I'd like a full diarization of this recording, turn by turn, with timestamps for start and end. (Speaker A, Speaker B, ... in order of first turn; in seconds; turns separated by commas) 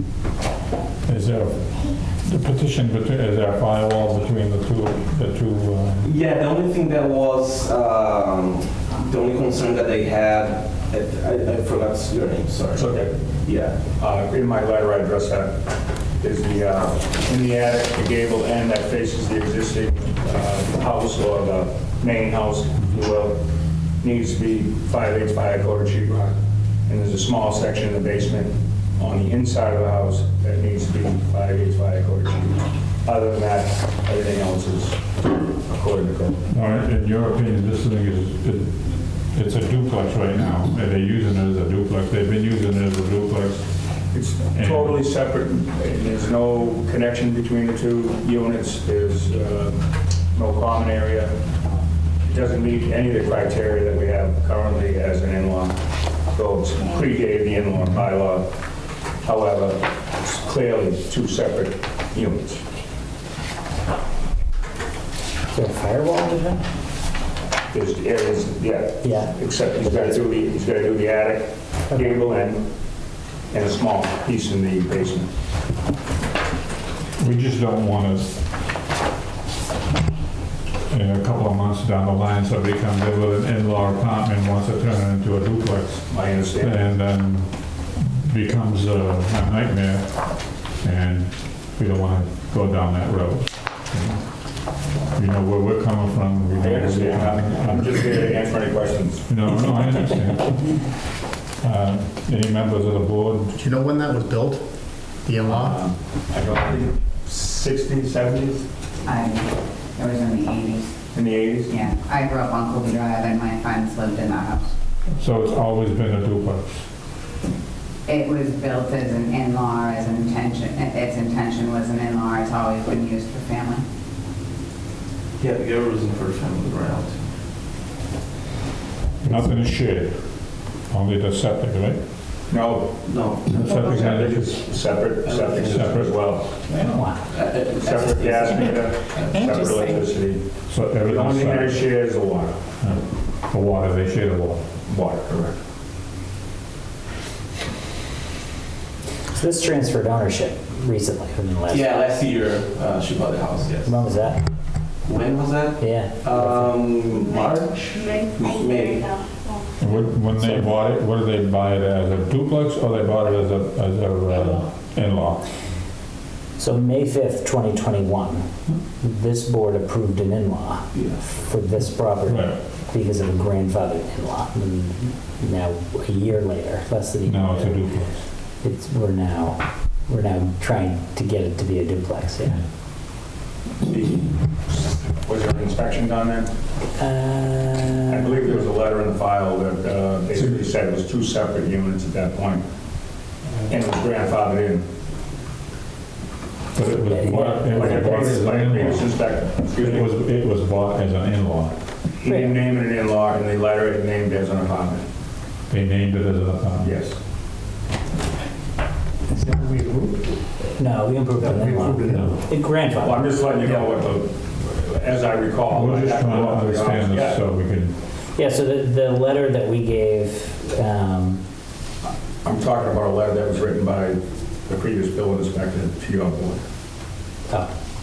Speaker A: 1.1-6.1, Speaker B: 6.0-13.8, Speaker C: 12.8-13.1, Speaker C: 14.0-15.6, Speaker C: 16.2-23.4, Speaker C: 24.0-26.4, Speaker C: 26.9-35.0, Speaker C: 35.6-36.4, Speaker A: 36.5-43.6, Speaker C: 44.1-49.8, Speaker A: 44.5-45.0, Speaker C: 50.3-51.3, Speaker C: 52.3-55.8, Speaker C: 56.3-58.5, Speaker C: 59.2-62.6, Speaker D: 65.5-66.6, Speaker C: 67.7-72.7, Speaker D: 69.0-70.2, Speaker C: 73.5-75.3, Speaker A: 77.2-78.4, Speaker A: 80.9-94.2, Speaker C: 86.1-86.8, Speaker A: 95.1-98.3, Speaker C: 96.5-99.2, Speaker A: 99.3-100.9, Speaker A: 101.6-103.6, Speaker E: 103.6-104.7, Speaker E: 105.2-105.8, Speaker C: 105.5-108.7, Speaker F: 109.0-110.9, Speaker C: 111.1-111.7, Speaker F: 111.7-114.7, Speaker A: 115.2-116.8, Speaker F: 118.1-123.8, Speaker B: 125.4-127.2, Speaker A: 129.2-132.0, Speaker C: 132.5-132.9, Speaker B: 133.0-133.6, Speaker A: 133.5-134.5, Speaker C: 133.6-136.5, Speaker B: 135.2-136.1, Speaker A: 135.7-136.3, Speaker B: 136.7-139.7, Speaker D: 136.9-137.2, Speaker C: 137.8-140.4, Speaker A: 140.7-141.9, Speaker C: 141.0-142.6, Speaker A: 142.8-144.7, Speaker C: 144.9-145.6, Speaker D: 149.3-151.8, Speaker B: 151.7-154.0, Speaker D: 153.8-154.4, Speaker B: 155.1-159.1, Speaker D: 155.8-156.7, Speaker A: 159.8-165.4, Speaker D: 160.3-160.8, Speaker D: 166.6-168.5, Speaker D: 169.0-177.8, Speaker B: 170.9-171.2, Speaker A: 172.3-172.6, Speaker A: 177.2-178.2, Speaker D: 178.6-182.6, Speaker C: 183.8-186.5, Speaker D: 187.0-188.5, Speaker C: 188.1-192.6, Speaker C: 193.7-194.8, Speaker A: 196.8-201.8, Speaker D: 197.0-198.3, Speaker C: 197.7-200.1, Speaker C: 202.2-205.1, Speaker D: 202.3-202.5, Speaker A: 205.7-207.0, Speaker C: 206.8-207.2, Speaker E: 209.3-210.2, Speaker D: 210.8-213.2, Speaker E: 211.4-212.4, Speaker A: 212.1-212.4, Speaker C: 213.0-217.4, Speaker A: 215.7-217.9, Speaker D: 218.3-221.4, Speaker C: 222.4-226.6